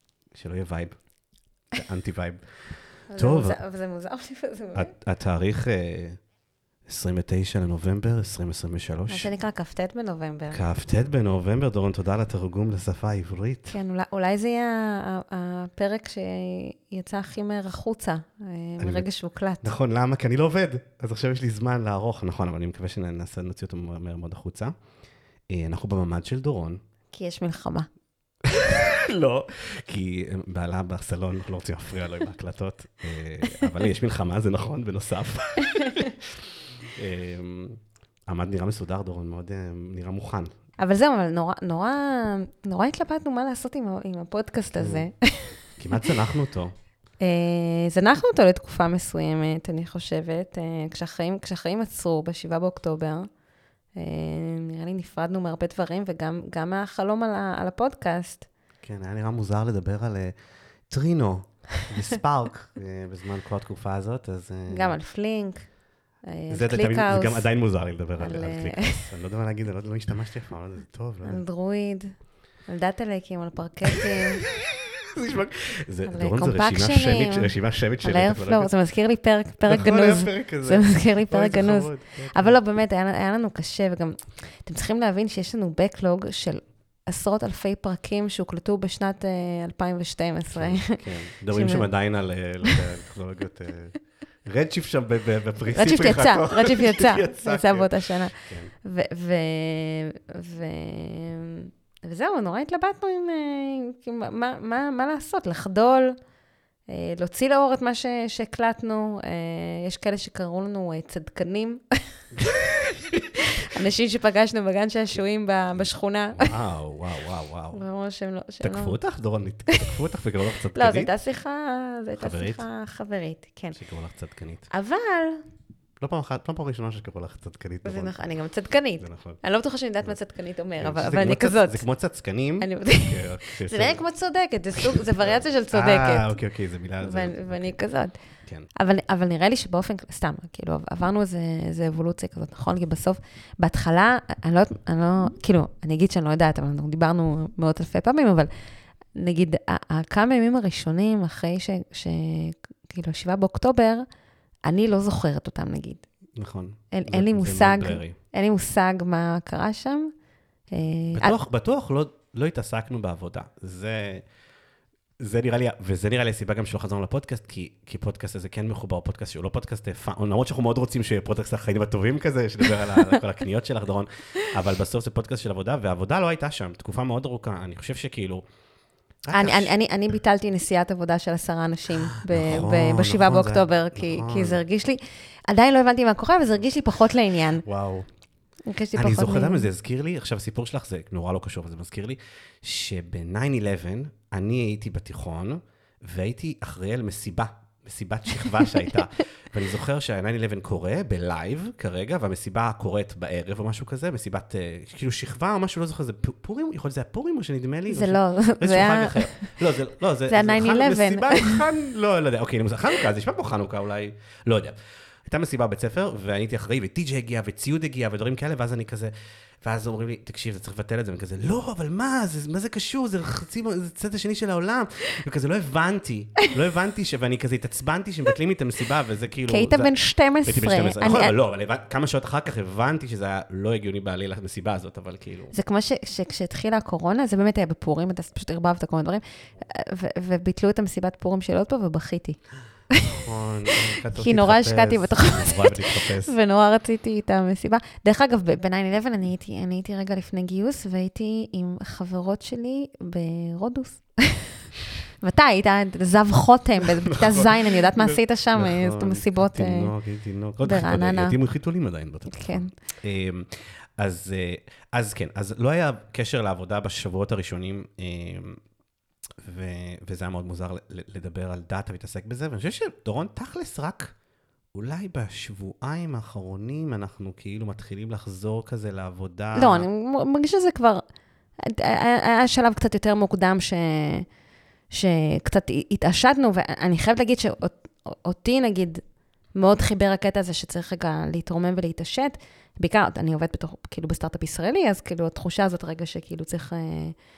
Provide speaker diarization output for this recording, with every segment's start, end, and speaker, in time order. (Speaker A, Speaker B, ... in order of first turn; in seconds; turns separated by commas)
Speaker A: 0.3-1.0, Speaker A: 1.7-2.4, Speaker B: 3.1-4.9, Speaker A: 3.1-3.6, Speaker A: 4.8-6.2, Speaker A: 6.9-9.3, Speaker B: 9.1-10.6, Speaker A: 10.5-13.8, Speaker B: 13.7-19.7, Speaker A: 18.8-19.1, Speaker A: 19.6-24.7, Speaker A: 25.5-26.8, Speaker B: 27.1-27.9, Speaker A: 28.4-36.3, Speaker A: 37.0-40.5, Speaker B: 40.8-45.6, Speaker A: 44.7-45.1, Speaker A: 45.7-46.7, Speaker B: 47.2-53.3, Speaker B: 54.0-58.5, Speaker A: 58.8-60.4, Speaker A: 60.9-65.0, Speaker B: 64.7-65.7, Speaker B: 66.2-67.5, Speaker A: 66.5-71.4, Speaker B: 68.2-69.1, Speaker B: 71.2-74.4, Speaker A: 74.4-78.7, Speaker B: 76.1-91.9, Speaker A: 79.6-82.6, Speaker A: 90.5-98.7, Speaker B: 95.7-106.2, Speaker B: 106.9-112.6, Speaker B: 113.7-116.5, Speaker A: 116.3-117.8, Speaker B: 117.7-119.0, Speaker A: 118.6-121.1, Speaker B: 119.7-120.0, Speaker B: 120.8-123.8, Speaker A: 122.2-122.7, Speaker A: 123.7-124.7, Speaker B: 124.7-125.4, Speaker A: 126.0-128.3, Speaker B: 127.8-131.9, Speaker A: 129.0-129.4, Speaker A: 130.8-134.0, Speaker B: 132.6-136.4, Speaker A: 134.8-137.8, Speaker B: 137.0-138.2, Speaker B: 138.8-148.5, Speaker B: 149.2-154.1, Speaker B: 154.7-156.0, Speaker A: 156.4-158.2, Speaker B: 156.9-160.1, Speaker B: 160.7-161.4, Speaker A: 161.1-164.2, Speaker A: 165.2-178.4, Speaker B: 172.8-173.1, Speaker A: 179.3-179.7, Speaker B: 179.3-187.7, Speaker A: 182.1-184.6, Speaker A: 187.7-188.1, Speaker B: 188.7-189.7, Speaker A: 188.9-219.1, Speaker B: 207.9-209.6, Speaker B: 210.3-211.7, Speaker A: 219.6-229.9, Speaker B: 229.5-231.3, Speaker A: 230.4-235.5, Speaker B: 235.5-242.4, Speaker A: 243.0-246.3, Speaker B: 244.1-254.6, Speaker B: 255.2-259.9, Speaker A: 257.3-268.6, Speaker B: 260.6-261.4, Speaker B: 262.3-262.7, Speaker A: 269.4-274.1, Speaker A: 274.7-279.9, Speaker B: 279.6-281.1, Speaker B: 281.6-284.3, Speaker B: 284.9-297.2